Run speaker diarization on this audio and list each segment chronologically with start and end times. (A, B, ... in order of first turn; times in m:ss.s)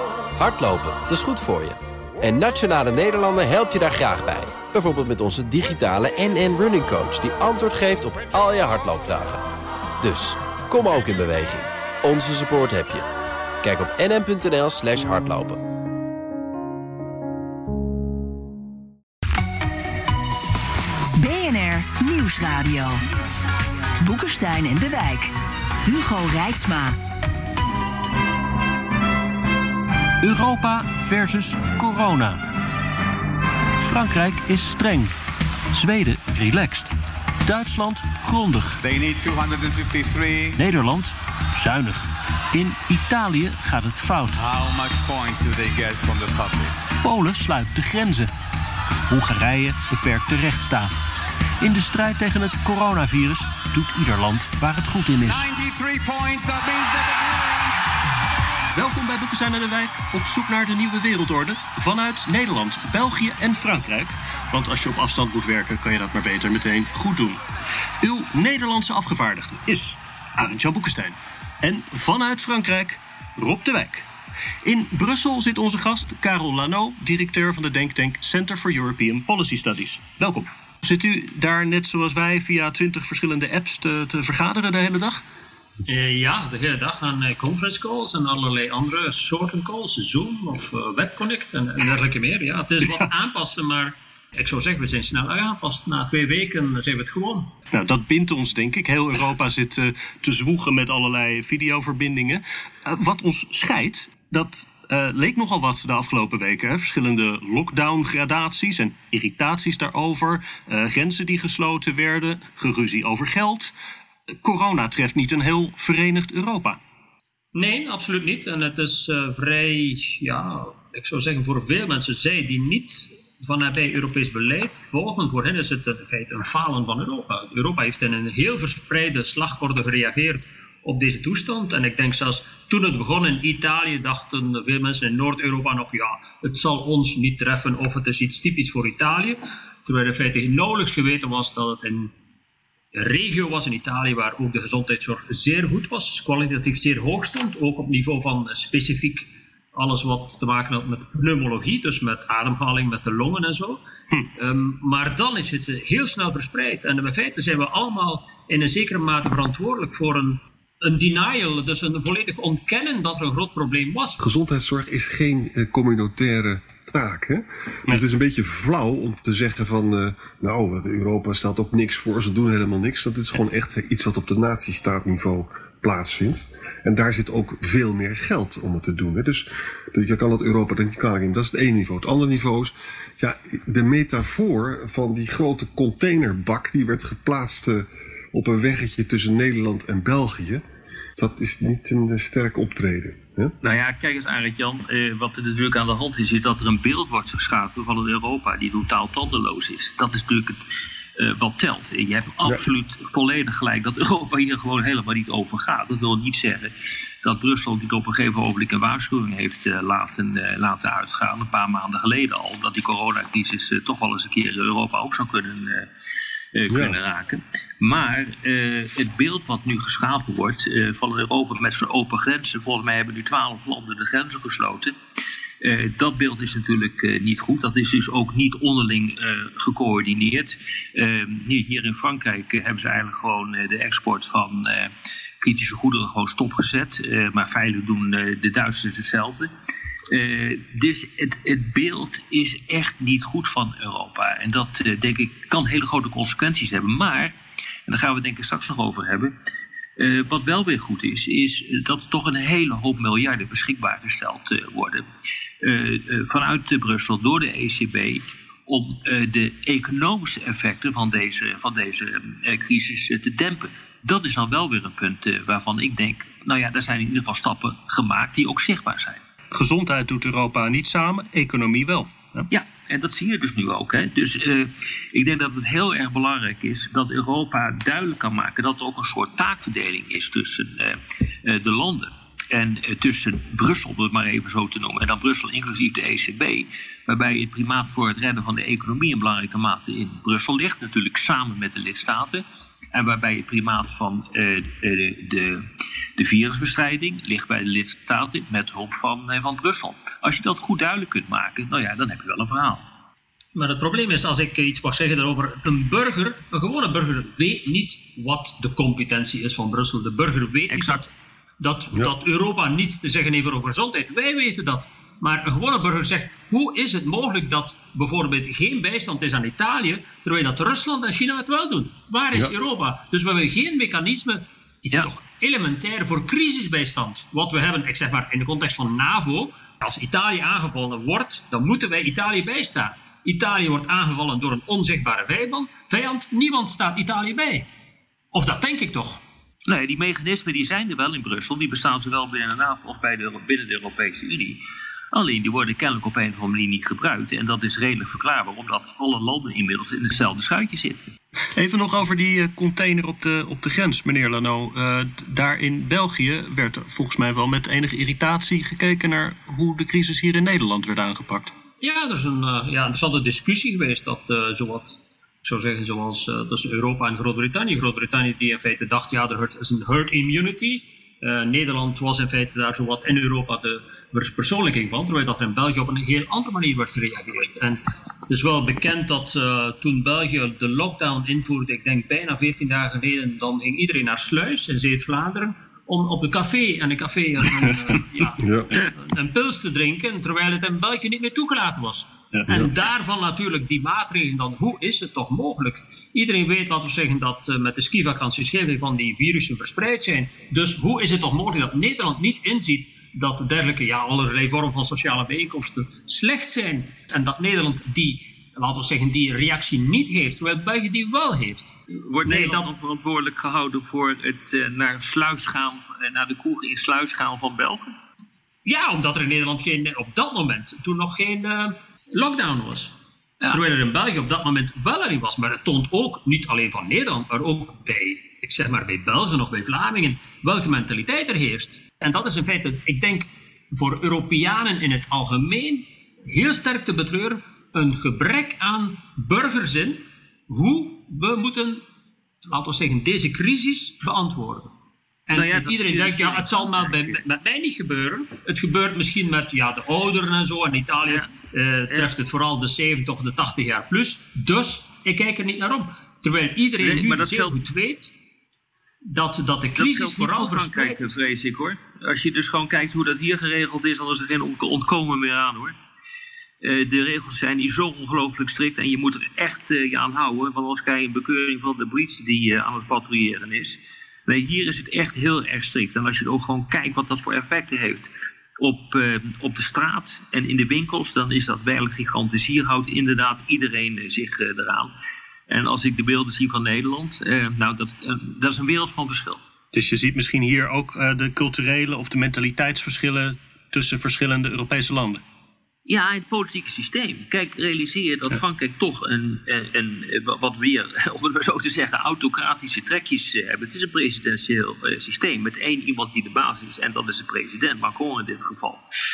0:00.3-0:09.4 A
0:10.0-0:13.0 A
0:13.6-0:15.6 A
0:21.2-0:23.0 B
0:24.0-0:25.3 B
0:25.8-0:27.0 B
0:30.2-0:32.4 C
0:33.8-0:35.1 C
0:35.7-0:38.8 C
0:38.8-0:40.6 D
0:40.6-0:44.4 C
0:44.3-0:46.8 D
0:47.0-0:48.3 C
0:49.1-0:50.9 C
0:51.6-0:55.5 C
0:55.2-0:57.7 D
0:58.7-1:07.4 C
1:08.0-1:14.1 C
1:14.6-1:25.2 C
1:25.8-1:37.5 E
1:32.8-1:33.1 C
1:37.7-1:53.7 C
1:54.4-1:56.8 C
1:57.5-2:22.1 E
2:22.9-2:33.8 E
2:34.4-2:44.2 E
2:44.2-3:10.6 F
3:11.2-3:13.6 F
3:13.6-3:20.6 G
3:21.2-3:26.7 G
3:27.2-3:35.9 G
3:36.5-3:44.9 G
3:36.7-3:37.0 F
3:45.6-3:59.5 G
4:00.1-4:07.3 G
4:07.9-4:09.3 G
4:10.0-4:15.0 G
4:15.6-4:29.2 G
4:29.5-4:32.5 C
4:32.5-4:55.6 G
4:56.2-5:02.8 G
5:03.5-5:37.7 E
5:10.7-5:11.1 G
5:38.3-5:39.2 E
5:39.7-5:44.6 G
5:45.1-5:51.1 G
5:51.5-6:01.5 C
6:01.8-6:52.7 E
6:28.4-6:28.8 F
6:52.0-6:58.0 G
6:58.6-7:02.9 E
7:03.5-7:21.8 E
7:22.5-7:24.7 E
7:25.3-7:38.1 E
7:25.3-7:27.2 G
7:36.8-7:37.6 G
7:39.1-7:41.0 E
7:39.8-7:45.7 G
7:46.6-7:58.1 G
7:58.6-8:04.9 G
8:05.5-8:09.4 G
8:09.7-8:15.2 C
8:15.8-8:28.8 G